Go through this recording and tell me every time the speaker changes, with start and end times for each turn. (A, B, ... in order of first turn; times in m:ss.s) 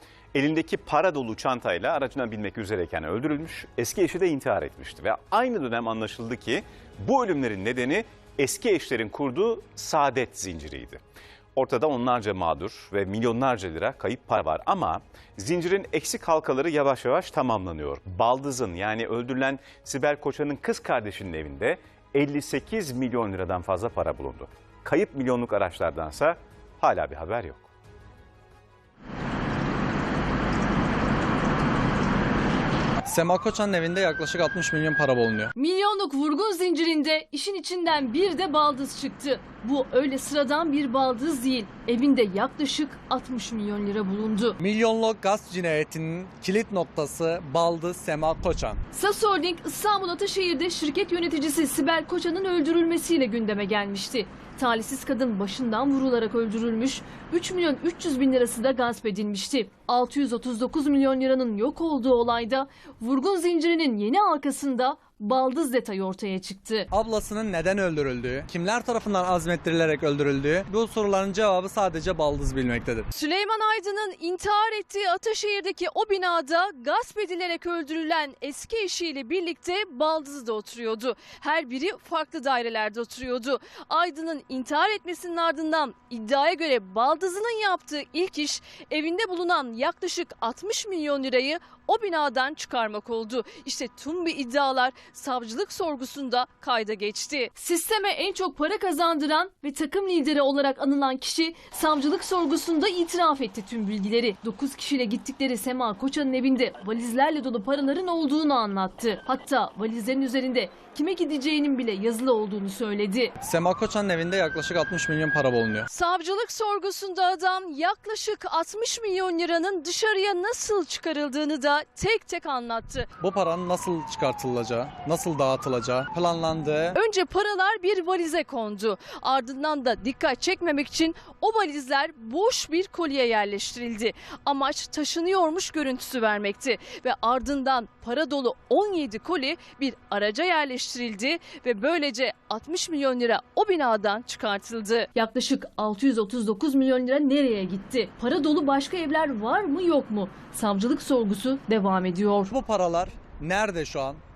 0:00.3-0:11.0 A
0:11.5-0:27.6 A
0:33.0-0:35.5 B
0:35.6-0:44.6 C
0:44.6-0:48.8 B
0:48.9-1:06.9 C
1:06.9-1:13.1 B
1:13.1-1:53.3 C
1:53.4-1:55.9 B
1:55.9-2:03.1 C
2:03.2-2:07.0 B
2:06.9-2:32.5 C
2:32.5-2:34.2 B